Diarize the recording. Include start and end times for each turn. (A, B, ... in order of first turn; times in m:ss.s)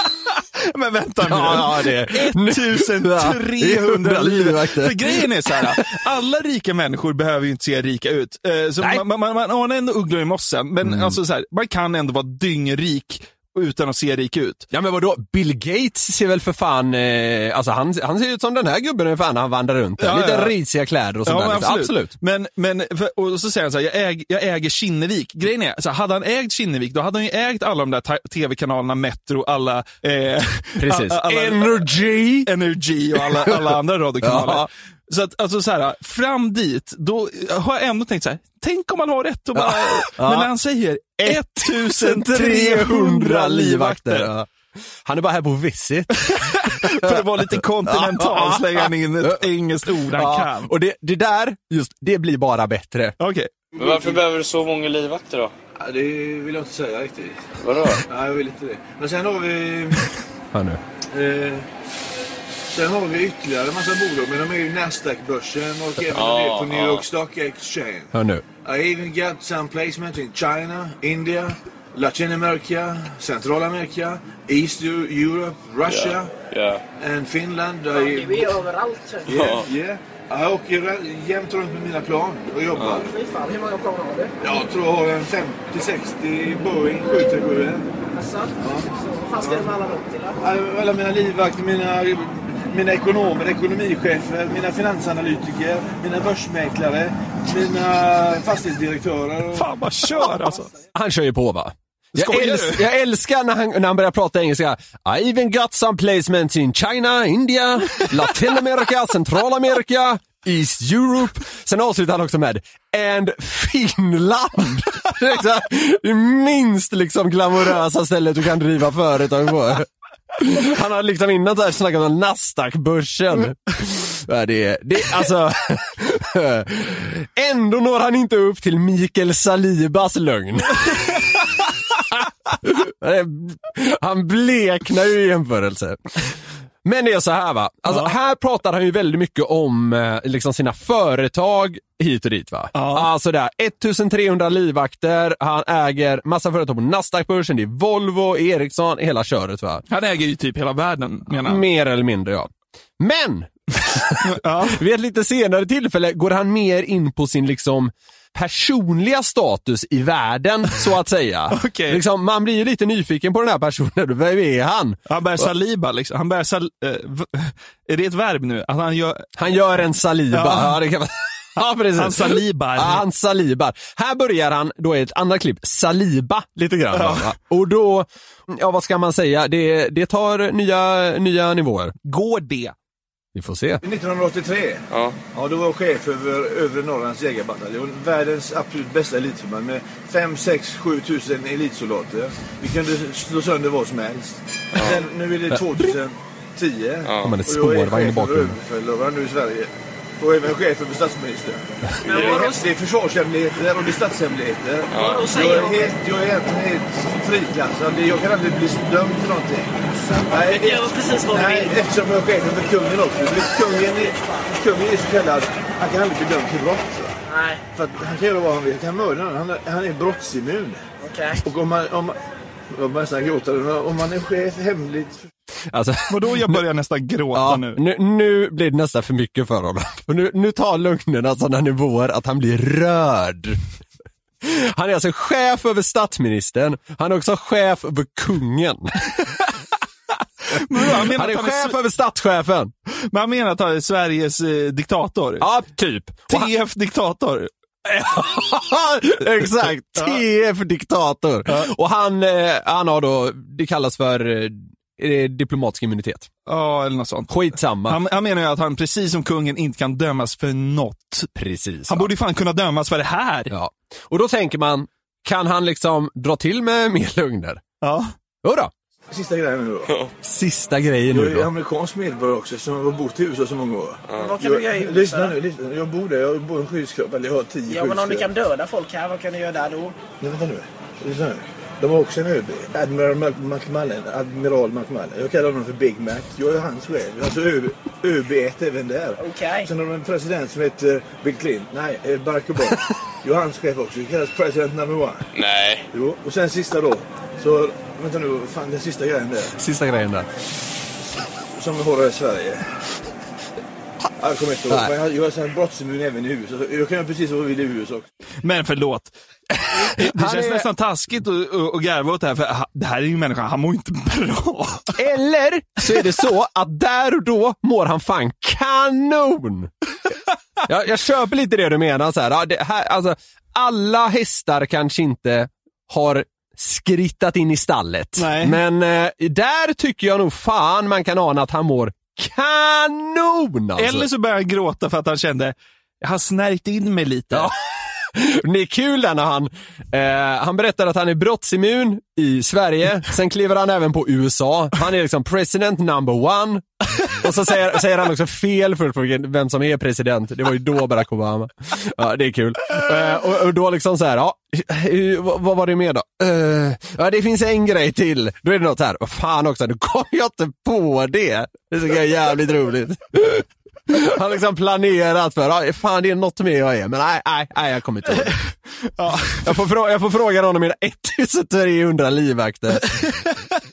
0:00.6-0:14.7 A
0:01.2-0:05.8 B
0:10.8-0:11.2 B
0:14.7-0:22.1 B
0:20.0-0:20.6 A
0:21.2-0:44.3 A
0:30.8-0:32.5 B
0:33.2-0:34.7 B
0:39.6-0:40.5 B
0:41.2-0:44.5 B
0:45.0-0:53.2 B
0:46.2-0:50.7 A
0:53.2-0:53.5 A
0:53.8-0:54.2 C
0:53.8-0:55.5 D
0:55.8-0:57.5 C
0:57.6-0:58.0 D
0:58.1-1:00.1 C
1:00.5-1:00.8 B
1:01.1-1:01.7 C
1:02.7-1:16.4 C
1:06.1-1:07.1 D
1:08.1-1:08.4 B
1:15.9-1:16.8 D
1:17.0-1:18.6 C
1:17.9-1:19.4 E
1:19.3-1:23.1 C
1:19.4-1:19.7 D
1:22.9-1:24.3 E
1:24.4-1:27.9 C
1:28.1-1:30.4 E
1:28.6-1:29.7 C
1:30.4-1:39.7 C
1:39.5-1:40.7 A
1:40.9-2:11.2 B
1:42.2-1:42.9 A
2:12.5-2:16.0 B
2:16.8-2:29.8 B
2:17.9-2:18.1 A
2:22.8-2:23.1 A
2:29.9-2:31.6 A
2:31.4-2:45.5 B
2:34.2-2:34.8 A
2:41.5-2:42.0 A
2:45.1-2:49.3 A
2:49.4-3:01.9 B
2:50.3-2:50.8 A
2:52.0-2:53.0 A
2:56.9-2:57.3 A
3:02.0-3:02.8 A
3:03.4-3:03.8 B
3:03.8-3:29.7 C
3:04.9-3:05.2 D
3:14.8-3:15.0 D
3:15.5-3:15.9 B
3:17.0-3:17.4 D
3:17.2-3:18.6 B
3:22.0-3:22.7 E
3:22.1-3:22.5 D
3:24.9-3:25.3 D
3:24.9-3:26.0 E
3:30.0-3:31.8 E
3:30.3-3:37.2 C
3:37.3-3:37.6 E
3:37.7-3:40.8 C
3:41.0-3:41.4 E
3:41.4-3:42.2 C
3:42.7-3:45.2 C
3:45.7-3:46.6 B
3:46.1-3:47.8 A
3:47.3-3:53.6 B
3:54.4-3:59.0 B
4:00.5-4:01.8 A
4:00.9-4:02.7 B
4:03.1-4:05.5 A
4:05.4-4:06.5 B
4:06.3-4:07.5 A
4:07.9-4:16.3 B
4:10.0-4:10.2 A
4:16.5-4:21.3 A
4:17.3-4:18.0 B
4:21.4-4:22.1 B
4:21.9-4:23.5 A
4:23.5-4:27.6 B
4:27.8-4:28.1 A
4:28.4-4:28.7 B
4:29.1-4:29.9 C
4:30.2-4:31.5 B
4:31.1-4:38.3 C
4:34.1-4:34.3 D
4:34.1-4:35.4 E
4:37.7-4:40.0 E
4:40.2-4:55.3 C
4:49.2-4:49.7 E
4:55.4-4:55.9 D
4:55.9-4:59.5 C
4:59.6-5:00.3 B
5:01.5-5:02.7 C
5:04.2-5:08.1 C
5:08.4-5:09.1 A
5:09.8-5:10.7 B
5:09.8-5:15.0 A
5:15.0-5:19.7 B
5:20.7-5:34.1 B
5:28.2-5:28.6 A
5:33.8-5:37.5 A
5:37.3-6:08.4 B
6:09.0-6:09.6 A
6:09.4-6:13.0 B
6:13.1-6:13.4 A